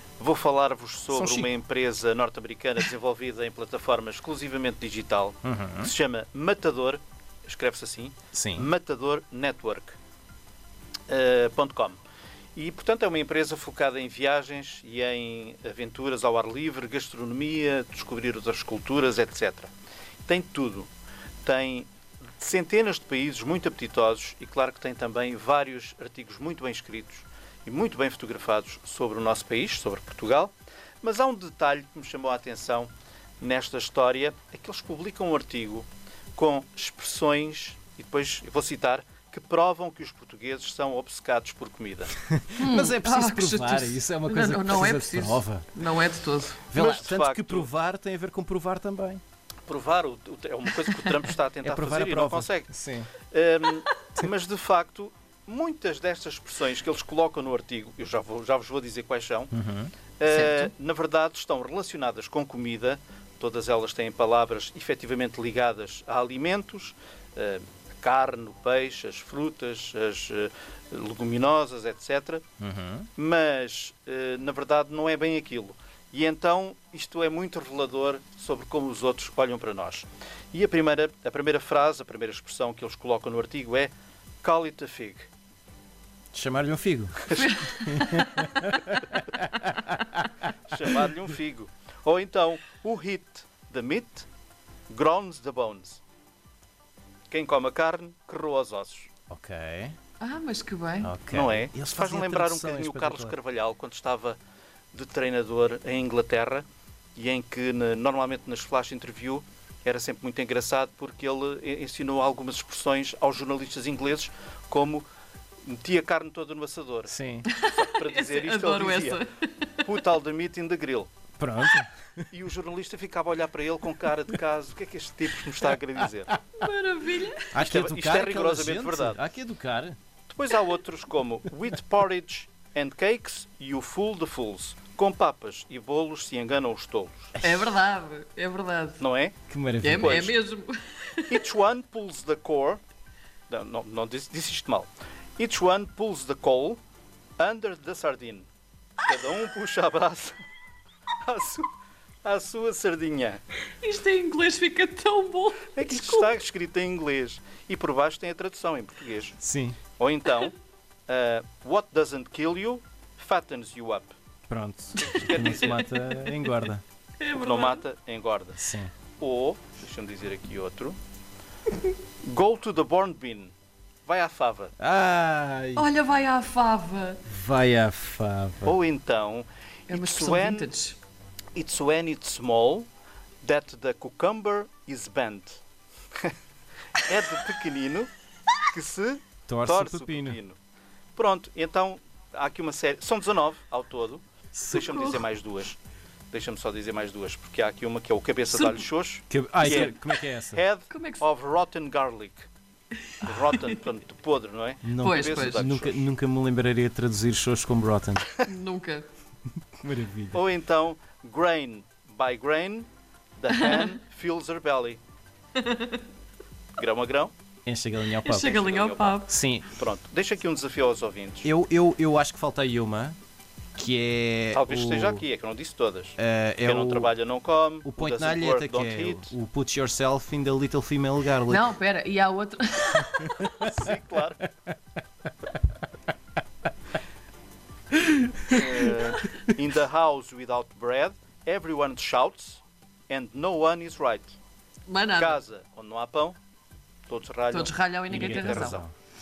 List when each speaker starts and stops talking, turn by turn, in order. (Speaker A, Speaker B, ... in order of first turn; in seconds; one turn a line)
Speaker A: 0.2-10.0
Speaker B: 1.1-1.5
Speaker B: 5.4-5.9
Speaker B: 8.3-8.7
Speaker A: 11.1-12.0
Speaker A: 12.5-19.7
Speaker A: 20.3-20.9
Speaker A: 21.4-42.1
Speaker B: 42.2-45.7
Speaker C: 42.6-46.6
Speaker B: 46.7-49.2
Speaker A: 46.7-47.7
Speaker A: 49.6-59.5
Speaker B: 51.6-53.1
Speaker B: 59.5-59.9
Speaker A: 60.2-72.4
Speaker C: 60.2-60.7
Speaker B: 72.6-73.1
Speaker A: 73.2-85.3
Speaker B: 86.3-90.2
Speaker C: 87.3-88.4
Speaker A: 90.6-94.3
Speaker A: 94.9-96.0
Speaker A: 97.3-99.1
Speaker B: 99.3-100.0
Speaker C: 100.2-101.1
Speaker B: 101.0-103.3
Speaker A: 101.3-104.4
Speaker A: 104.9-106.6
Speaker A: 107.2-115.0
Speaker A: 115.6-119.2
Speaker B: 117.1-117.5
Speaker C: 117.5-119.8
Speaker A: 119.8-121.1
Speaker B: 121.4-122.2
Speaker A: 122.3-126.4
Speaker C: 126.6-127.5
Speaker B: 127.5-130.0
Speaker A: 127.6-129.2
Speaker A: 130.3-137.3
Speaker B: 137.4-137.7
Speaker C: 137.4-139.0
Speaker A: 139.0-139.4
Speaker B: 139.5-140.3
Speaker C: 139.8-141.4
Speaker A: 140.0-140.3
Speaker A: 141.3-142.8
Speaker A: 143.5-146.8
Speaker A: 147.4-148.5
Speaker A: 149.0-150.3
Speaker A: 151.2-151.7
Speaker A: 152.2-153.4
Speaker C: 153.8-156.3
Speaker A: 155.7-159.4
Speaker B: 159.4-159.8
Speaker A: 160.0-160.5
Speaker A: 161.1-164.1
Speaker B: 164.5-166.8
Speaker A: 165.0-165.8
Speaker C: 167.2-167.8
Speaker A: 167.3-168.6
Speaker B: 168.6-168.9
Speaker A: 169.2-171.0
Speaker A: 172.2-173.5
Speaker A: 174.1-174.7
Speaker B: 174.8-175.9
Speaker C: 175.8-177.2
Speaker B: 177.3-178.8
Speaker A: 178.6-180.7
Speaker C: 179.9-181.0
Speaker A: 181.5-182.9
Speaker A: 183.4-185.6
Speaker A: 186.9-188.1
Speaker A: 188.6-190.6
Speaker B: 189.5-190.4
Speaker A: 191.2-195.8
Speaker C: 194.6-195.2
Speaker A: 196.3-202.5
Speaker C: 198.5-198.8
Speaker B: 199.3-200.6
Speaker C: 200.9-201.2
Speaker A: 203.2-206.1
Speaker B: 204.8-208.3
Speaker C: 205.0-205.7
Speaker C: 208.4-209.1
Speaker B: 209.8-210.4
Speaker A: 210.3-215.0
Speaker C: 215.6-216.0
Speaker A: 216.8-217.3
Speaker B: 217.7-218.6
Speaker C: 218.2-219.3
Speaker A: 218.4-221.5
Speaker B: 219.2-219.7
Speaker B: 221.4-223.2
Speaker B: 223.8-225.2
Speaker A: 224.5-229.3
Speaker B: 226.2-227.1
Speaker B: 227.8-231.7
Speaker C: 231.5-233.3
Speaker B: 233.2-233.9
Speaker A: 233.6-234.4
Speaker B: 238.2-238.8
Speaker A: 238.5-244.4
Speaker C: 244.9-245.4
Speaker A: 245.2-246.4
Speaker A: 247.1-248.8
Speaker C: 247.5-248.8
Speaker B: 248.1-248.9